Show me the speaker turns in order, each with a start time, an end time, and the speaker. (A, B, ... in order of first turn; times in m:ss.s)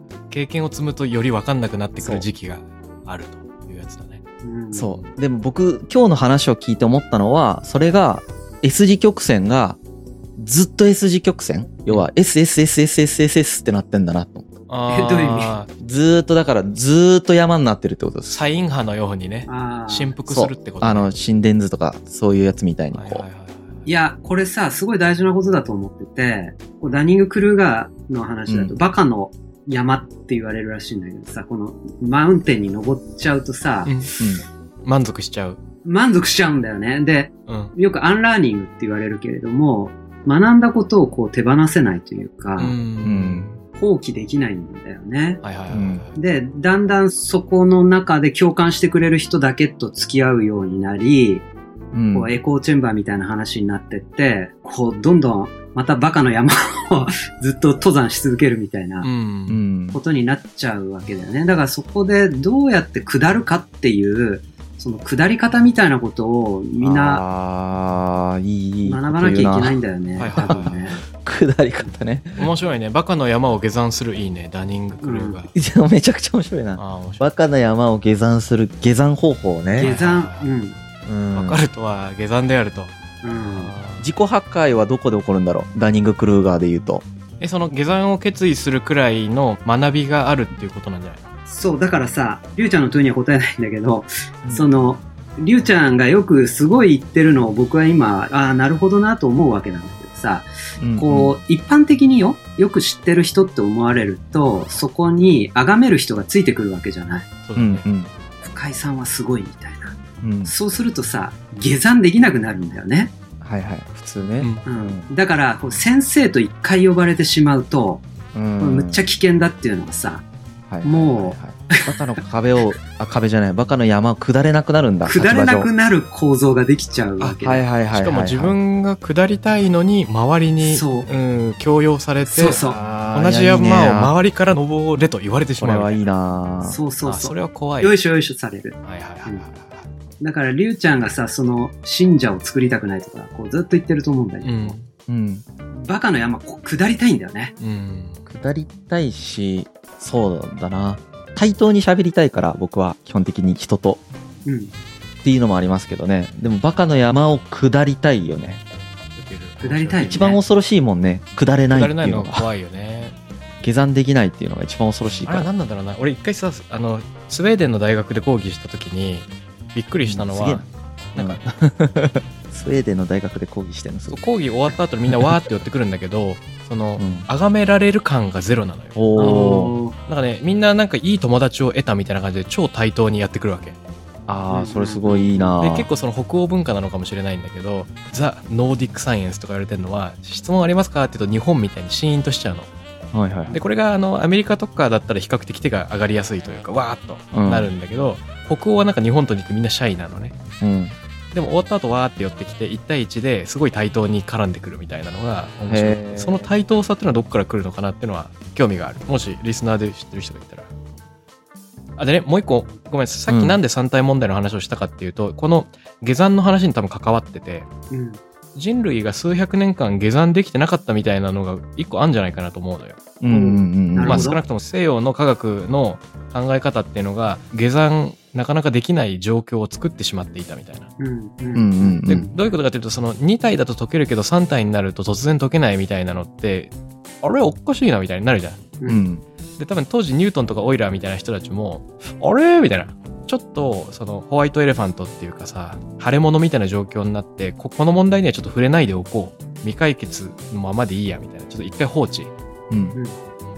0:00.3-0:04.2 A
0:02.0-0:02.3 B
0:04.4-0:05.0 C
0:04.7-0:09.8 B
0:10.4-0:14.5 B
0:14.7-0:15.7 A
0:14.9-0:15.5 C
0:15.8-0:18.4 B
0:18.3-0:21.1 A
0:19.5-0:20.2 C
0:20.3-0:23.2 B
0:22.9-0:23.9 A
0:23.9-0:34.2 C
0:28.5-0:28.8 B
0:33.8-0:34.1 A
0:34.2-0:34.4 B
0:34.8-0:35.6 A
0:35.8-0:42.8 C
0:37.5-0:37.7 A
0:42.6-0:43.4 A
0:43.0-0:43.6 B
0:43.8-0:45.4 C
0:45.4-0:46.1 A
0:45.7-0:46.0 B
0:46.2-0:51.5 C
0:51.9-0:52.3 B
0:52.1-0:59.1 C
0:59.0-0:59.6 A
0:59.5-1:00.0 B
0:59.9-1:07.2 C
1:06.8-1:09.8 B
1:08.8-1:11.0 C
1:10.2-1:11.0 A
1:10.4-1:12.5 B
1:12.4-1:15.5 A
1:15.0-1:15.4 C
1:15.5-1:19.9 B
1:16.8-1:17.3 A
1:19.7-1:20.8 C
1:19.8-1:20.5 A
1:21.1-1:21.6 B
1:21.3-1:22.9 A
1:23.2-1:23.7 C
1:23.5-1:24.1 A
1:24.0-1:27.0 B
1:27.4-1:31.3 A
1:31.5-1:47.3 C
1:40.8-1:41.4 B
1:47.4-1:47.8 A
1:47.6-1:48.1 B
1:48.4-1:53.1 C
1:50.2-1:50.5 B
1:53.4-1:55.1 B
1:54.6-1:58.0 C
1:58.3-1:59.0 B
1:58.6-2:00.2 C
2:00.7-2:05.7 B
2:00.8-2:01.8 C
2:05.0-2:07.6 C
2:07.2-2:08.6 B
2:07.9-2:16.0 A
2:10.6-2:11.1 C
2:12.3-2:14.1 B
2:12.4-2:12.8 C
2:15.6-2:16.8 B
2:16.6-2:19.5 C
2:17.0-2:17.9 A
2:18.8-2:19.9 A
2:20.2-2:24.8 C
2:24.4-2:24.9 A
2:25.1-2:25.4 B
2:25.7-2:27.5 C
2:27.6-2:28.2 A
2:28.3-2:34.0 B
2:34.4-2:34.7 C
2:35.2-2:38.6 B
2:39.2-2:40.2 A
2:39.6-2:40.4 C
2:40.0-2:42.5 B
2:41.7-2:43.2 A
2:43.6-2:45.5 B
2:45.2-2:51.4 A
2:50.0-2:54.2 B
2:54.1-2:59.3 A
2:55.1-2:55.4 B
2:57.0-2:57.3 B
2:59.0-2:59.7 B
2:59.2-2:59.9 C
3:00.1-3:03.8 A
3:04.3-3:05.9 B
3:04.5-3:05.6 C
3:05.6-3:12.7 A
3:13.1-3:13.6 B
3:13.5-3:20.4 A
3:17.3-3:17.7 B
3:20.6-3:21.0 B
3:21.3-3:30.7 A
3:25.7-3:26.5 B
3:32.0-3:37.7 A
3:33.3-3:33.6 B
3:37.9-3:38.2 C
3:38.6-3:43.0 A
3:43.2-3:44.4 B
3:43.3-3:44.4 C
3:44.0-3:50.9 A
3:51.0-3:52.3 C
3:51.5-3:52.3 B
3:52.1-3:58.7 A
3:58.8-3:59.0 C
3:58.9-3:59.2 B
3:59.6-4:12.3 A
4:12.7-4:13.0 B